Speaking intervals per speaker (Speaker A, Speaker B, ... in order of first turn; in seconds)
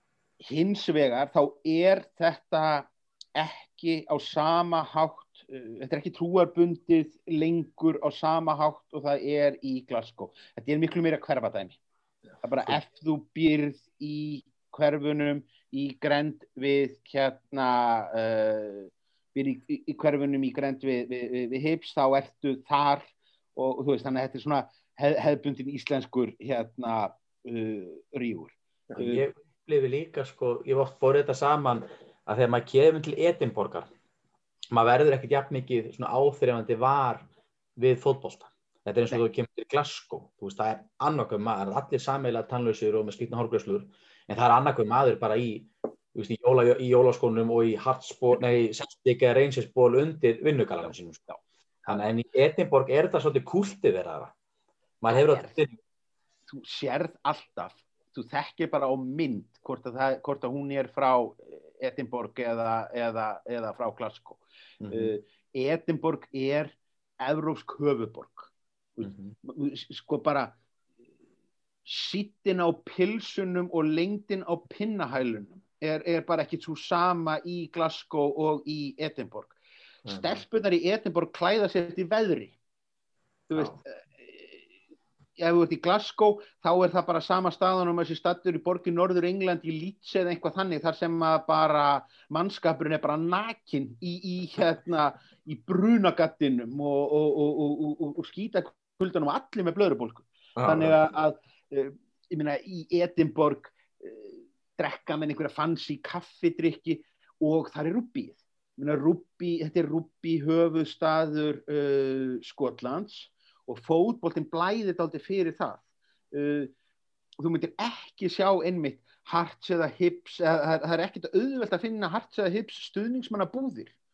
Speaker A: 0.4-11.8, 12.4-29.2, 51.3-52.0, 55.1-55.5, 56.5-70.6, 71.8-79.6, 80.1-82.5, 83.5-84.6, 85.4-116.7, 117.4-123.9
Speaker B: 29.0-33.9, 34.7-51.2, 51.9-54.3, 55.0-55.8, 64.8-65.1, 69.0-69.3, 80.0-80.4, 100.6-101.0